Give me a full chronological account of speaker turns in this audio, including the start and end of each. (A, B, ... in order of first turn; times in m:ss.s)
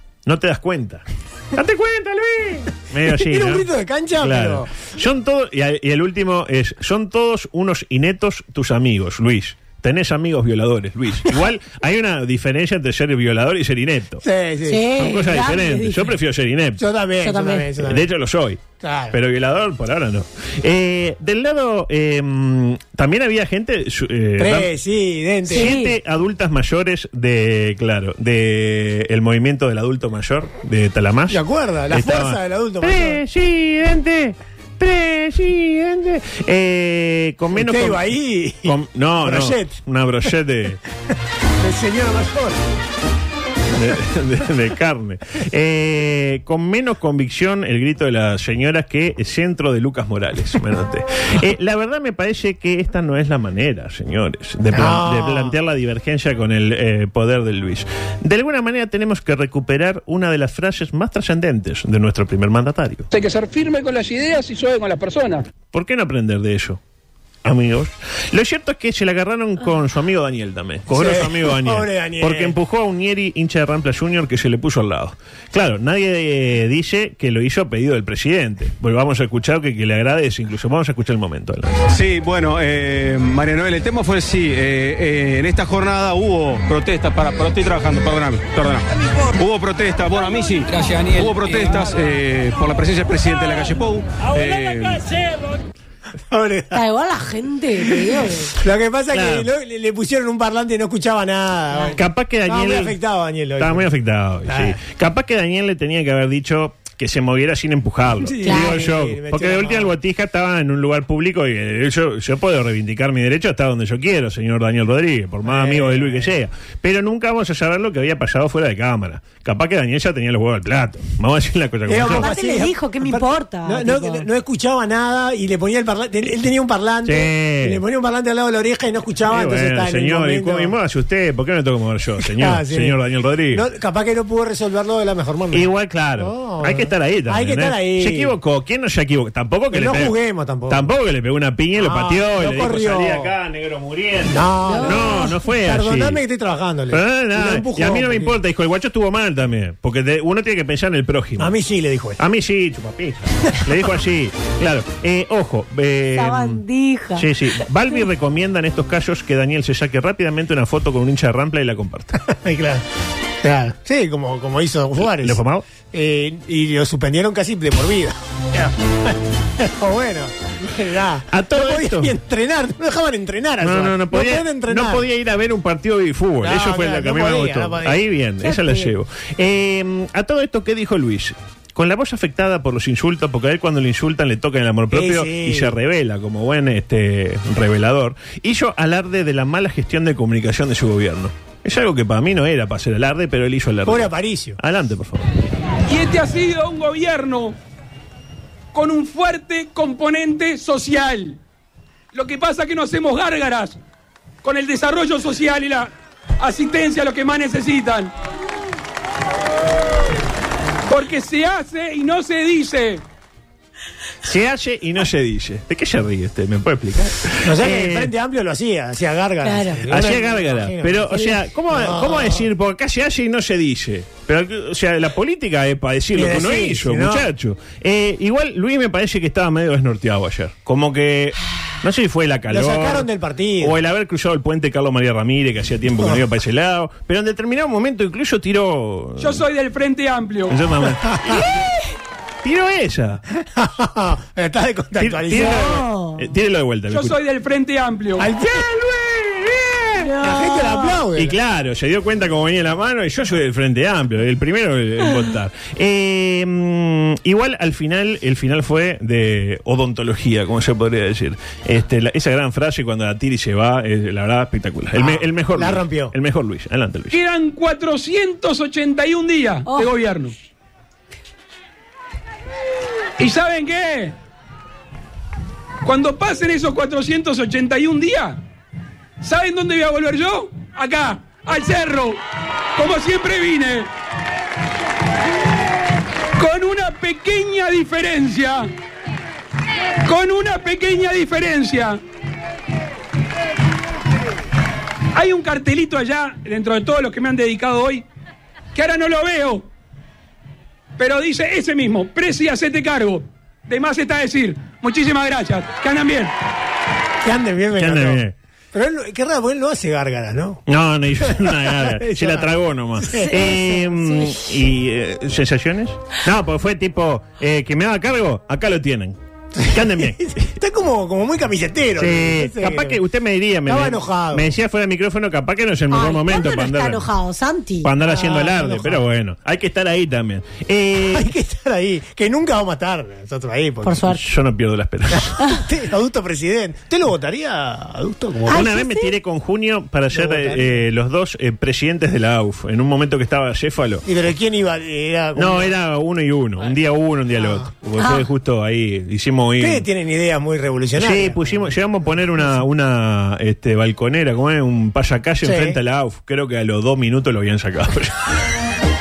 0:00.3-0:03.7 A
0:03.0-0:04.7 B
0:04.2-0:14.2 A
0:14.2-0:14.8 B
0:14.6-0:16.1 C
0:15.0-0:16.8 A
0:16.8-0:18.1 B
0:17.2-0:17.7 C
0:17.8-0:24.7 A
0:18.8-0:19.2 B
0:24.4-0:25.7 B
0:25.5-0:26.0 C
0:25.5-0:40.8 A
0:31.3-0:33.2 B
0:37.5-0:39.8 B
0:41.6-0:42.6 B
0:43.8-1:03.1 A
0:54.7-0:55.6 B
1:03.1-1:05.5 D
1:05.7-1:06.8 A
1:07.4-1:21.8 A
1:10.9-1:12.6 B
1:21.9-1:35.0 E
1:30.7-1:31.9 D
1:36.3-1:36.8 B
1:36.7-1:38.5 C
1:38.5-1:43.9 B
1:39.1-1:39.5 A
1:42.0-1:43.0 A
1:43.6-2:02.3 A
1:44.5-1:44.8 B
1:48.2-1:49.9 B
1:48.4-1:48.8 C
1:55.4-1:56.3 B
2:01.9-2:10.8 B
2:02.0-2:04.3 C
2:07.0-2:07.8 A
2:09.3-2:13.6 A
2:12.2-2:13.0 B
2:13.5-2:18.3 B
2:15.5-2:20.2 A
2:19.7-2:20.9 B
2:20.7-2:26.2 A
2:21.8-2:23.3 B
2:24.3-2:28.4 B
2:24.7-2:25.4 C
2:26.9-2:31.6 A
2:31.4-2:32.2 B
2:32.2-2:36.6 A
2:36.1-2:37.3 C
2:37.2-2:42.2 A
2:42.2-2:42.8 B
2:43.4-2:45.4 B
2:45.1-2:45.6 A
2:45.9-2:55.1 B
2:51.3-2:52.1 A
2:53.6-3:15.3 A
2:56.4-2:58.0 B
2:58.4-2:58.9 C
3:04.9-3:05.8 B
3:13.9-3:14.6 B
3:15.9-3:17.6 F
3:18.7-3:21.4 F
3:22.1-3:23.8 F
3:24.4-3:28.1 F
3:30.9-3:33.0 F
3:34.2-3:38.1 A
3:37.4-3:42.5 B
3:39.4-3:40.0 C
3:39.9-3:53.1 A
3:46.1-3:47.3 B
3:52.5-3:53.8 B
3:53.6-3:59.4 A
3:59.2-4:00.6 F
4:00.5-4:01.4 A
4:01.0-4:01.3 B
4:01.3-4:01.7 C
4:02.4-4:03.2 A
4:03.4-4:05.8 B
4:05.0-4:07.2 A
4:05.4-4:06.2 C
4:06.9-4:08.3 F
4:08.2-4:08.7 B
4:08.4-4:10.1 A
4:10.0-4:11.0 C
4:10.2-4:11.4 B
4:11.2-4:27.2 A
4:25.0-4:26.1 B
4:27.1-4:30.3 F
4:29.7-4:29.9 C
4:33.2-4:34.2 F
4:35.8-4:38.4 F
4:39.2-4:42.2 F
4:42.8-4:43.9 F
4:46.4-4:48.7 F
4:50.0-4:52.0 F
4:55.1-4:58.0 F
4:58.8-4:59.7 F
5:01.0-5:06.3 F
5:07.2-5:10.6 B
5:07.8-5:08.3 A
5:10.7-5:20.5 A
5:11.2-5:12.5 B
5:13.1-5:13.6 B
5:13.1-5:14.4 C
5:19.6-5:23.0 B
5:22.0-5:27.1 A
5:23.7-5:24.5 B
5:25.9-5:27.9 C
5:27.8-5:31.3 A
5:28.0-5:29.0 B
5:31.1-5:34.1 B
5:33.8-5:34.2 C
5:34.1-5:35.4 A
5:35.4-5:38.7 B
5:38.5-5:44.0 A
5:38.5-5:39.1 C
5:40.1-5:40.8 B
5:44.1-5:45.7 B
5:45.4-5:49.9 A
5:48.0-5:48.3 C
5:49.6-5:51.6 B
5:51.0-5:58.4 A
5:55.4-5:55.8 B